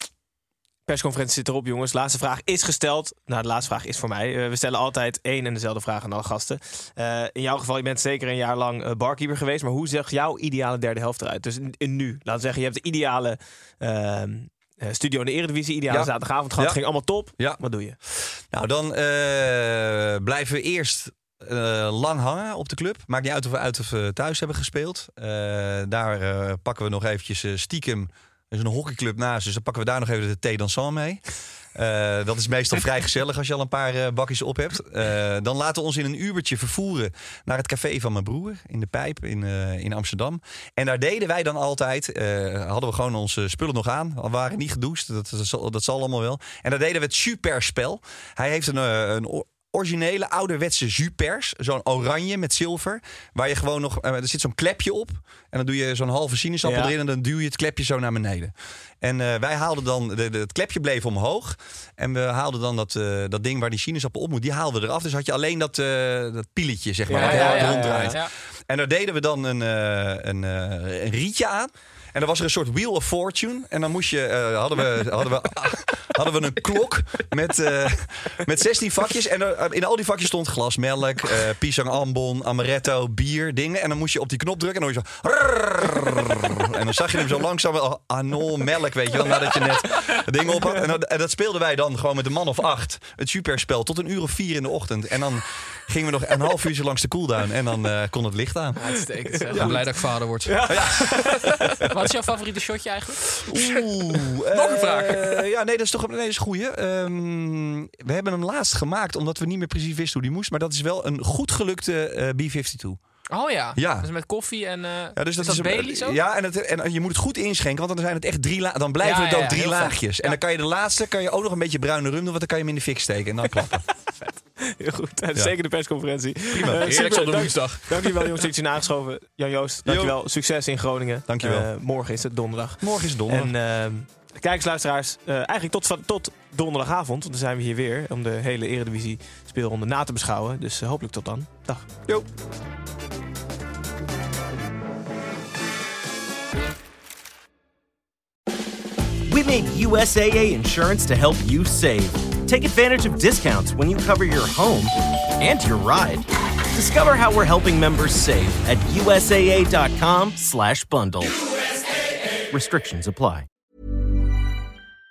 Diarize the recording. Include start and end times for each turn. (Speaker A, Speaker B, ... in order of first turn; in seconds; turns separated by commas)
Speaker A: 0.9-18.0, Speaker B: 15.9-31.2, Speaker B: 31.7-98.8, Speaker A: 56.6-56.9, Speaker A: 67.1-68.2, Speaker C: 67.1-68.3, Speaker C: 98.8-99.7, Speaker B: 99.5-99.8, Speaker D: 99.5-100.9, Speaker A: 100.5-101.7, Speaker B: 100.7-101.4, Speaker C: 101.9-103.4, Speaker B: 103.4-113.0, Speaker D: 104.5-105.4, Speaker C: 113.3-116.2, Speaker B: 113.8-114.1, Speaker B: 115.2-123.8, Speaker C: 119.0-120.4, Speaker A: 124.3-141.9, Speaker B: 126.5-126.9, Speaker D: 126.7-128.3, Speaker B: 129.8-130.2, Speaker B: 131.3-131.7, Speaker B: 132.8-133.5, Speaker E: 149.3-161.4, Speaker E: 162.5-163.5